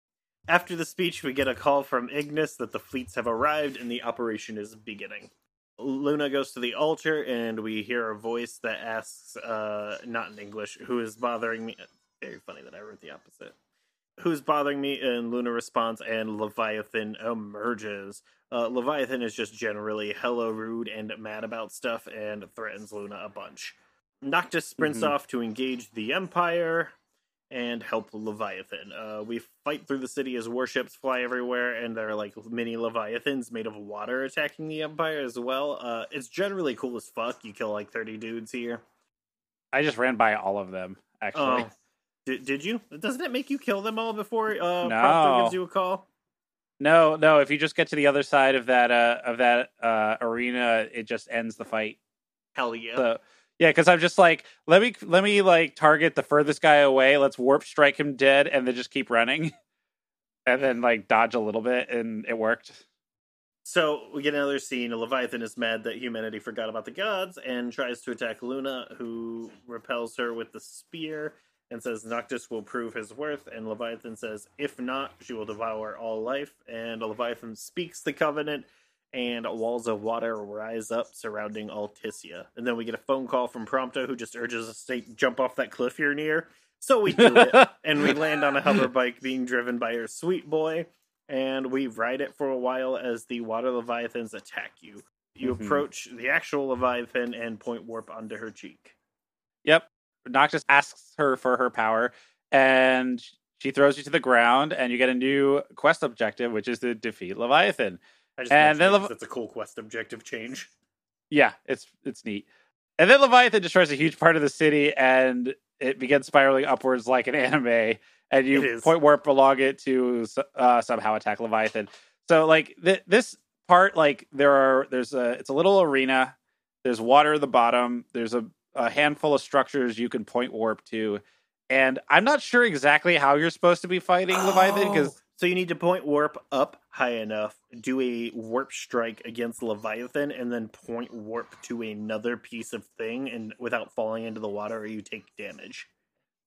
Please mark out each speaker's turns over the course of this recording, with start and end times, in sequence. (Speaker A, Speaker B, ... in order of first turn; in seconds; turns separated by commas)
Speaker A: 0.5-13.6, Speaker A: 14.2-26.9, Speaker B: 24.8-25.1, Speaker A: 27.5-38.8, Speaker B: 39.7-41.7, Speaker A: 41.4-41.7, Speaker A: 42.3-46.0, Speaker B: 44.8-45.6, Speaker B: 46.8-52.0, Speaker A: 52.6-53.1, Speaker B: 53.0-59.5, Speaker B: 60.5-62.8, Speaker A: 63.6-98.9, Speaker B: 87.1-88.9, Speaker B: 95.4-95.8, Speaker B: 99.7-108.0, Speaker A: 108.4-110.7, Speaker B: 108.5-109.1, Speaker B: 111.3-112.5, Speaker B: 113.0-135.2, Speaker A: 118.5-118.9, Speaker A: 134.4-145.9